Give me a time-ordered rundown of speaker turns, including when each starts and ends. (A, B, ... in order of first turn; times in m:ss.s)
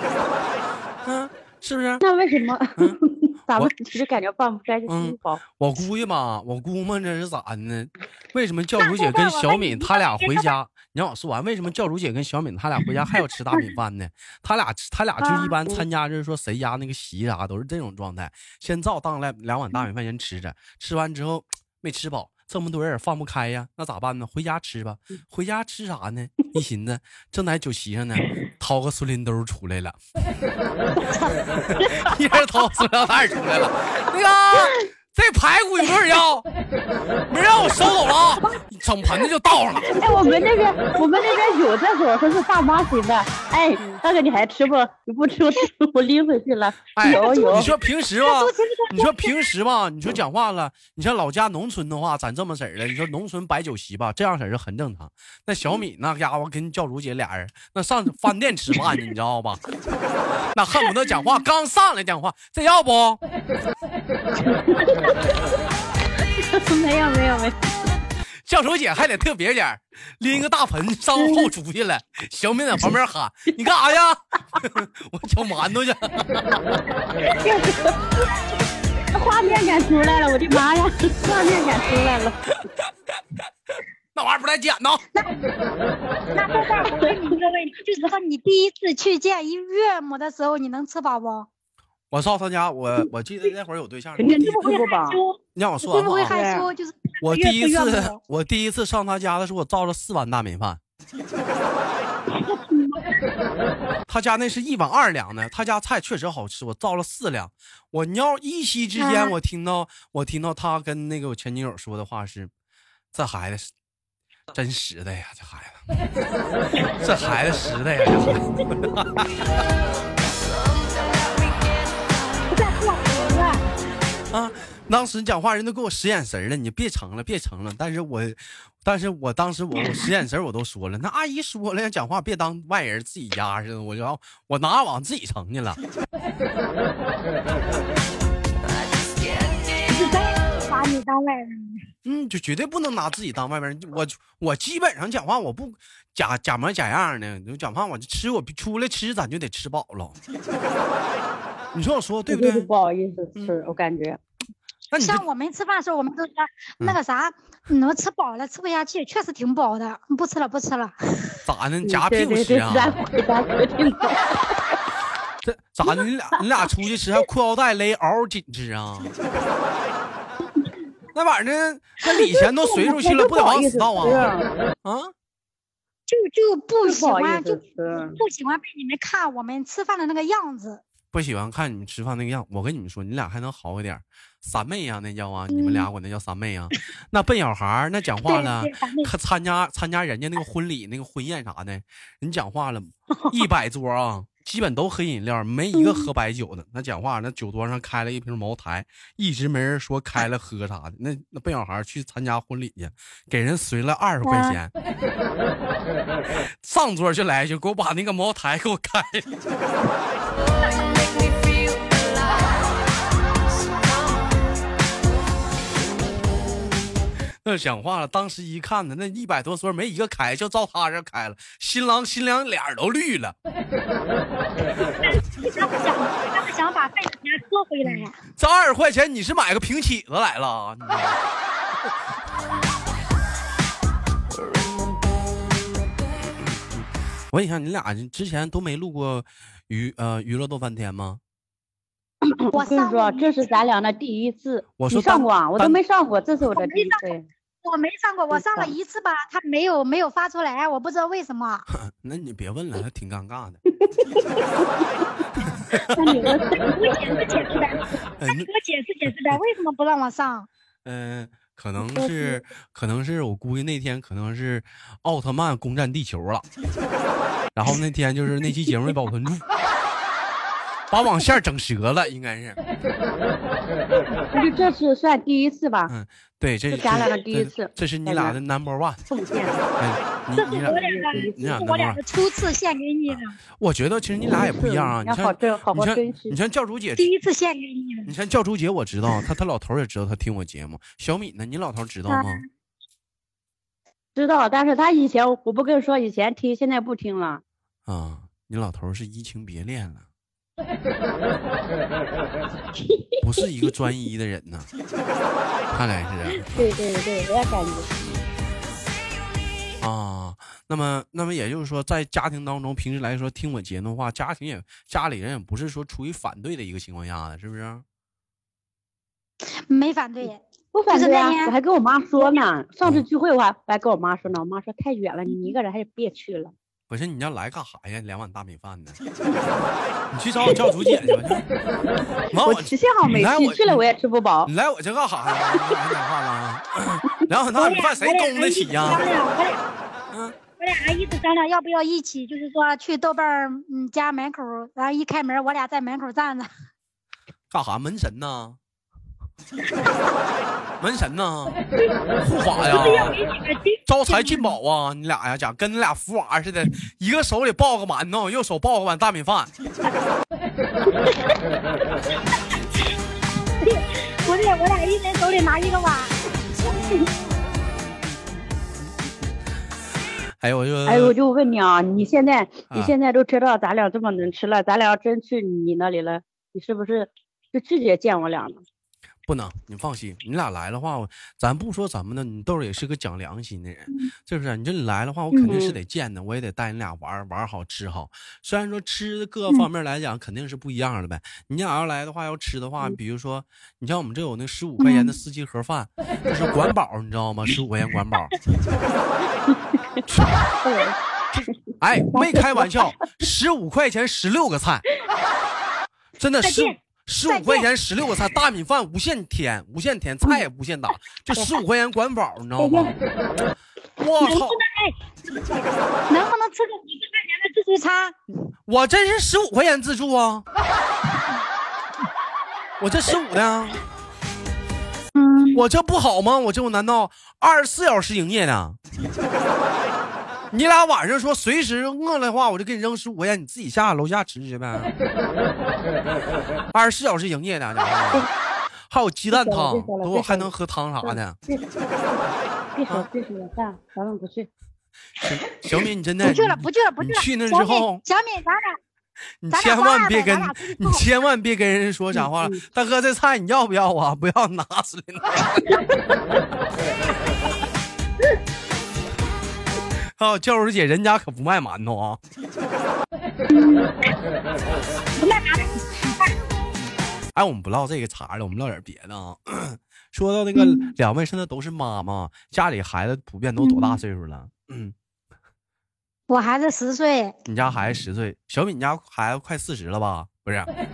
0:01.0-0:02.0 A
0:02.0-0:05.4 B
0:04.9-0:30.0 A
0:08.8-0:10.5 C
0:15.3-0:15.8 B
0:31.6-0:36.4 A
0:31.8-0:32.1 B
0:37.3-0:40.0 A
0:39.8-0:41.4 C
0:39.9-0:47.7 B
0:46.9-0:59.6 A
0:47.0-0:49.5 C
1:00.5-1:03.2 A
1:04.4-1:05.2 B
1:06.4-1:07.6 B
1:08.4-1:16.6 A
1:11.2-1:11.4 B
1:17.4-1:18.0 B
1:19.1-1:22.4 B
1:24.1-1:25.1 A
1:25.1-1:25.5 C
1:26.3-1:31.5 C
1:32.1-1:34.8 A
1:34.2-1:35.2 B
1:34.2-1:38.2 C
1:35.5-1:36.4 A
1:36.3-1:36.7 B
1:37.2-1:40.8 A
1:42.3-1:43.2 C
1:44.1-1:52.5 A
1:49.0-1:49.3 C
1:53.1-1:53.7 A
1:54.5-1:55.8 A
1:56.8-1:59.5 A
2:02.5-2:03.6 C
2:04.3-2:15.8 A
2:19.8-2:21.8 C
2:22.0-2:30.2 A
2:31.7-2:32.7 A
2:32.3-2:34.2 B
2:34.9-2:35.2 A
2:34.9-2:41.4 C
2:41.4-2:43.0 A
2:41.8-2:44.6 B
2:45.4-2:49.2 A
2:51.1-2:54.3 A
2:52.2-2:54.5 B
2:54.8-2:55.1 A
2:56.1-3:00.8 C
2:56.8-2:58.2 B
3:01.1-3:24.7 A
3:05.5-3:05.9 C
3:08.2-3:09.1 C
3:13.1-3:13.4 C
3:15.8-3:16.1 C
3:24.2-3:24.6 C
3:26.6-3:29.3 A
3:37.4-3:43.3 A
3:45.0-3:48.2 C
3:47.8-3:51.2 A
3:56.8-4:01.2 A
4:02.2-4:07.2 B
4:02.5-4:03.4 C
4:04.8-4:05.8 A
4:06.5-4:07.1 C
4:07.6-4:11.6 C
4:08.3-4:08.7 B
4:11.7-4:13.6 A
4:13.9-4:14.7 B
4:15.7-4:16.0 A
4:15.9-4:17.0 B
4:16.2-4:20.5 C
4:18.2-4:18.5 A
4:20.8-4:26.4 A
4:21.8-4:22.4 B
4:27.5-4:29.4 A
4:30.9-4:32.6 A
4:34.3-4:35.9 B
4:35.9-4:39.0 A
4:36.7-4:38.4 B
4:39.1-4:39.6 B
4:39.8-4:42.0 A
4:40.4-4:43.4 C
4:40.6-4:41.5 B
4:43.1-4:47.1 A
4:44.3-4:46.4 B
4:47.0-4:48.1 C
4:48.0-4:52.4 A
4:52.1-4:52.4 C
4:54.2-4:57.4 B
4:57.8-5:00.0 A
5:02.8-5:03.1 B
5:03.2-5:04.7 A
5:05.7-5:06.5 A
5:06.4-5:07.9 B
5:09.8-5:17.8 A
5:19.5-5:21.5 C
5:20.7-5:26.5 B
5:26.9-5:29.0 A
5:30.1-5:31.4 A
5:32.3-5:33.8 A
5:32.4-5:34.5 B
5:34.4-5:39.0 A
5:37.5-5:39.6 C
5:40.6-5:46.5 C
5:47.5-5:48.6 A
5:50.8-5:51.6 A
5:52.2-5:53.2 A
5:52.6-5:54.5 C
5:53.9-5:59.5 A
6:03.6-6:06.1 C
6:10.4-6:11.1 A
6:10.8-6:18.6 B
6:19.2-6:38.4 A
6:25.3-6:25.6 C
6:25.5-6:25.8 B
6:34.8-6:35.1 C
6:39.5-6:40.0 B
6:40.1-6:40.4 A
6:40.6-6:42.9 B
6:41.3-6:44.8 A
6:46.2-6:53.0 A
6:46.4-6:47.7 C
6:52.6-6:52.9 B
6:54.0-6:54.6 A
6:54.2-6:55.5 C
6:56.1-6:58.1 C
6:58.7-7:00.4 A
7:02.8-7:03.8 A
7:05.1-7:05.6 C
7:05.5-7:08.8 A
7:10.5-7:14.9 A
7:16.7-7:18.3 A
7:18.9-7:21.4 A
7:19.3-7:20.5 B
7:21.0-7:21.6 B
7:22.7-7:24.5 B
7:25.2-7:28.0 A
7:26.2-7:28.8 C
7:29.4-7:35.8 A
7:29.5-7:31.0 C
7:32.2-7:32.6 B
7:40.2-7:42.2 A
7:43.5-7:44.1 C
7:45.2-7:46.4 C
7:47.3-7:54.9 A
7:50.5-7:50.9 C
7:53.6-7:54.0 C
7:56.3-7:57.3 C
7:57.4-8:00.7 A